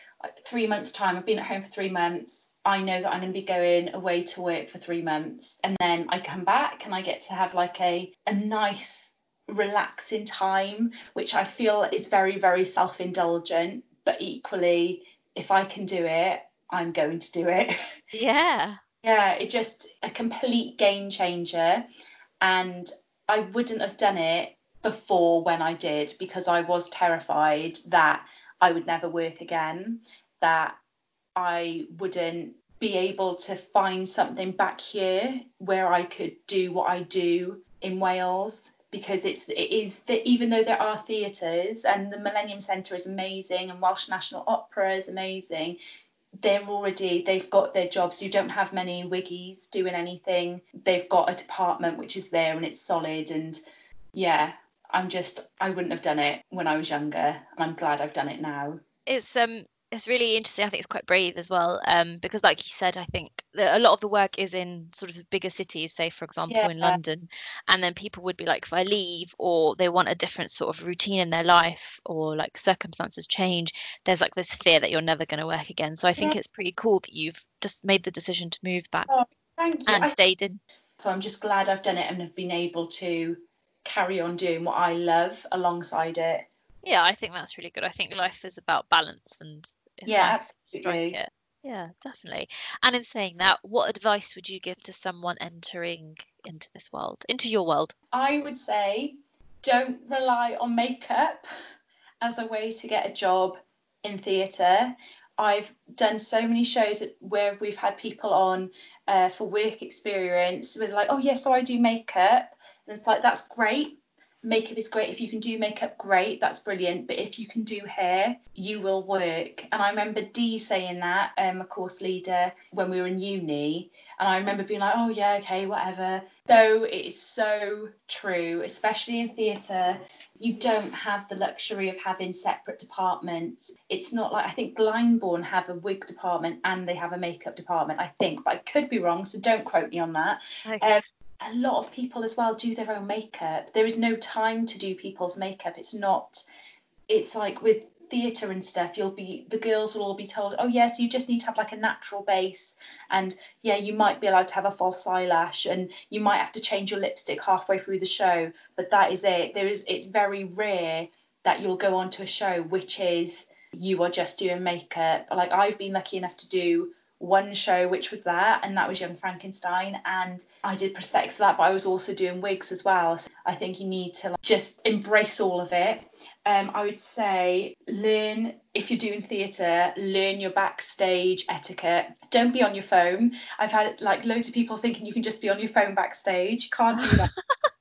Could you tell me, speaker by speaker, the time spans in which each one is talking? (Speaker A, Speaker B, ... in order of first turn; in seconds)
Speaker A: 0.4-17.7, 19.0-21.8, 22.4-30.8, 31.4-45.8, 46.4-53.6, 54.1-58.8, 66.5-67.0, 79.1-80.2, 81.0-86.5, 90.1-91.2, 98.1-101.4, 102.2-146.4, 147.1-187.3
Speaker B: 18.1-18.8, 59.1-79.1, 79.9-80.6, 86.8-98.0, 140.7-140.9, 187.0-187.3